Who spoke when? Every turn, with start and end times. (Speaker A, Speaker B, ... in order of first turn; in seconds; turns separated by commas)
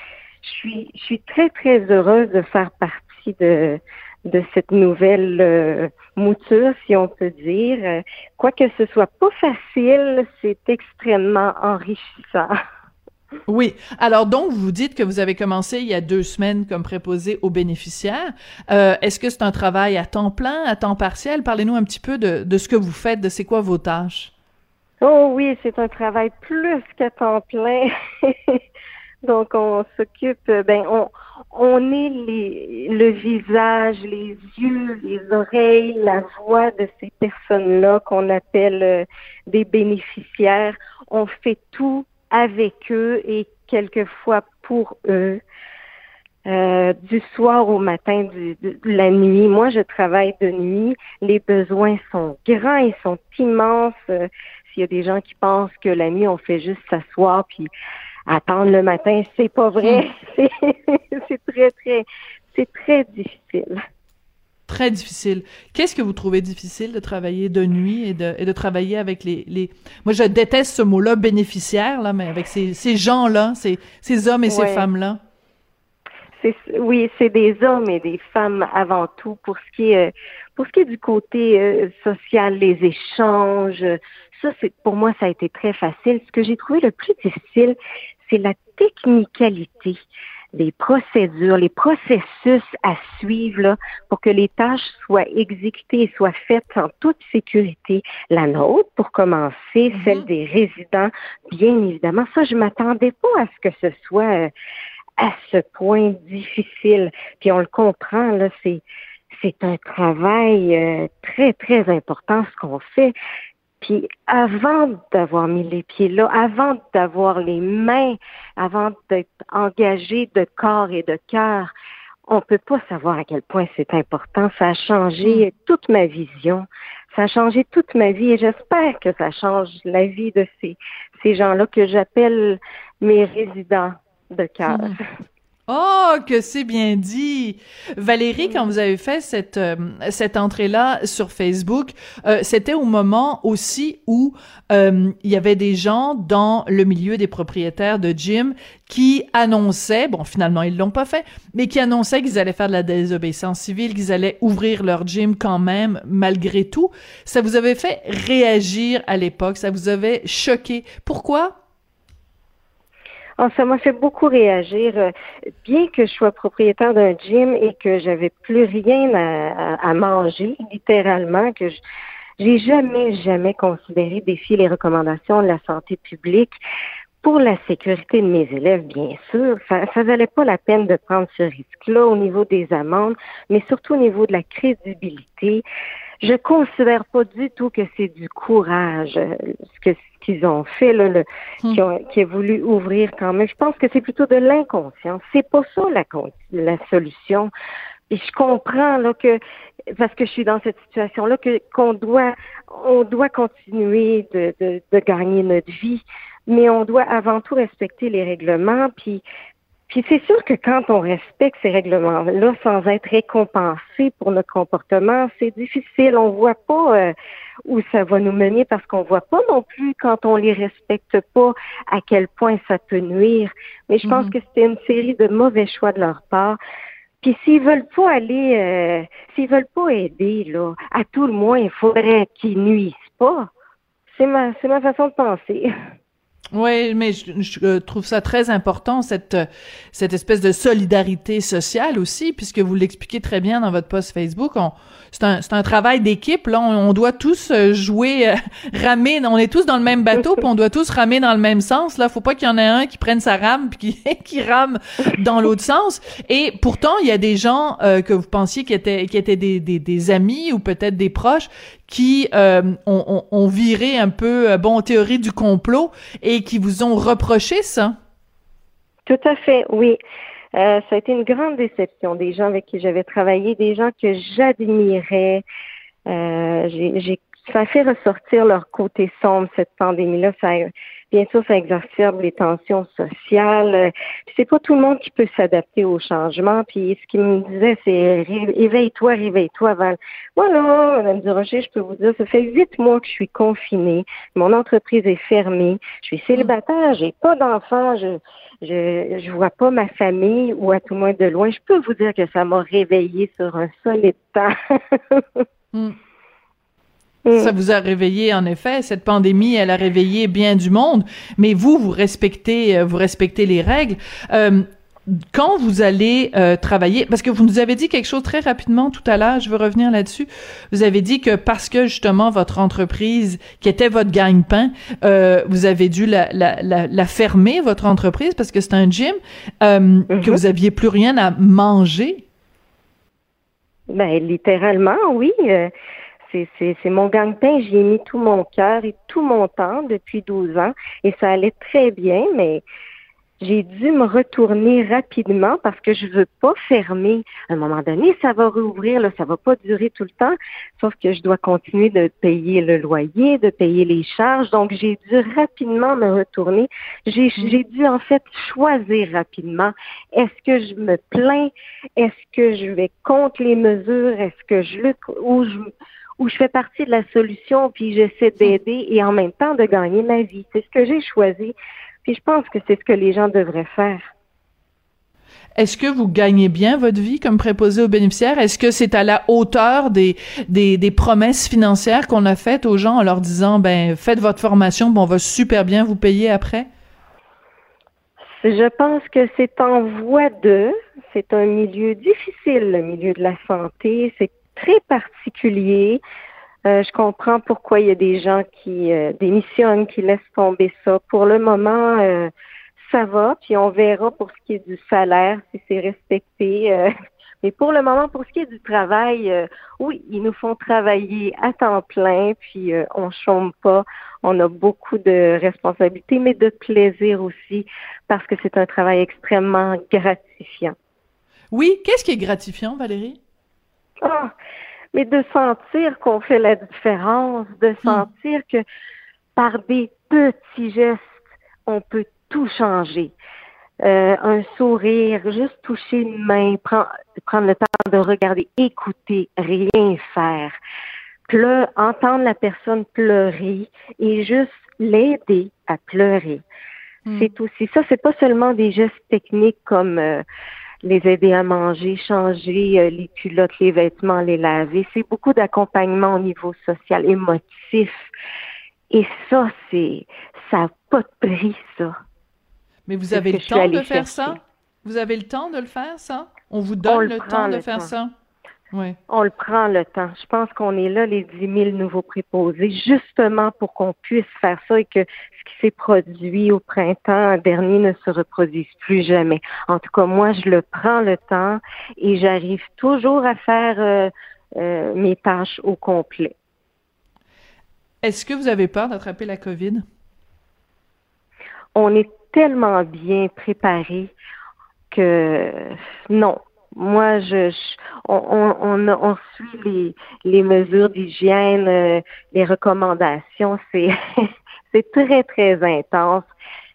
Speaker A: 0.4-12.5, Speaker B: 13.5-24.3, Speaker A: 25.0-28.6, Speaker A: 29.2-45.4, Speaker A: 46.5-57.7, Speaker A: 58.3-63.8, Speaker B: 64.7-75.2, Speaker A: 74.5-74.9, Speaker A: 76.4-90.0, Speaker A: 90.5-104.5, Speaker B: 99.9-100.3, Speaker A: 105.2-113.1, Speaker A: 113.8-121.7, Speaker A: 122.2-135.0, Speaker B: 134.7-135.0, Speaker B: 135.7-161.6, Speaker A: 163.4-165.1, Speaker A: 165.6-171.8, Speaker A: 172.4-176.6, Speaker A: 177.2-185.6, Speaker A: 186.2-197.5, Speaker A: 198.1-199.4, Speaker A: 199.9-209.2, Speaker A: 209.9-217.1, Speaker A: 217.7-226.6, Speaker B: 224.0-224.3, Speaker A: 227.2-233.5, Speaker A: 234.1-235.7, Speaker B: 236.5-267.9, Speaker A: 269.1-270.0, Speaker A: 270.5-275.4, Speaker A: 276.1-305.4, Speaker A: 307.2-307.5, Speaker B: 307.4-332.2, Speaker A: 330.1-330.4, Speaker A: 333.9-335.7, Speaker A: 336.2-342.6, Speaker A: 343.4-365.7, Speaker A: 366.2-374.1, Speaker B: 375.6-386.7, Speaker A: 388.4-396.0, Speaker A: 396.7-406.9, Speaker A: 407.4-420.8, Speaker B: 421.5-423.2, Speaker A: 424.0-424.3, Speaker A: 424.9-428.6, Speaker A: 429.4-431.1, Speaker A: 431.6-433.1, Speaker A: 433.8-440.6, Speaker A: 441.3-446.4, Speaker B: 447.1-447.3, Speaker A: 447.2-450.2, Speaker A: 450.8-458.1, Speaker A: 458.9-461.9, Speaker B: 462.9-468.1, Speaker A: 463.1-464.4, Speaker A: 466.9-467.9, Speaker B: 468.7-469.0, Speaker A: 469.1-486.3, Speaker B: 488.0-489.8, Speaker A: 491.8-494.1, Speaker A: 494.9-503.9, Speaker A: 504.7-506.3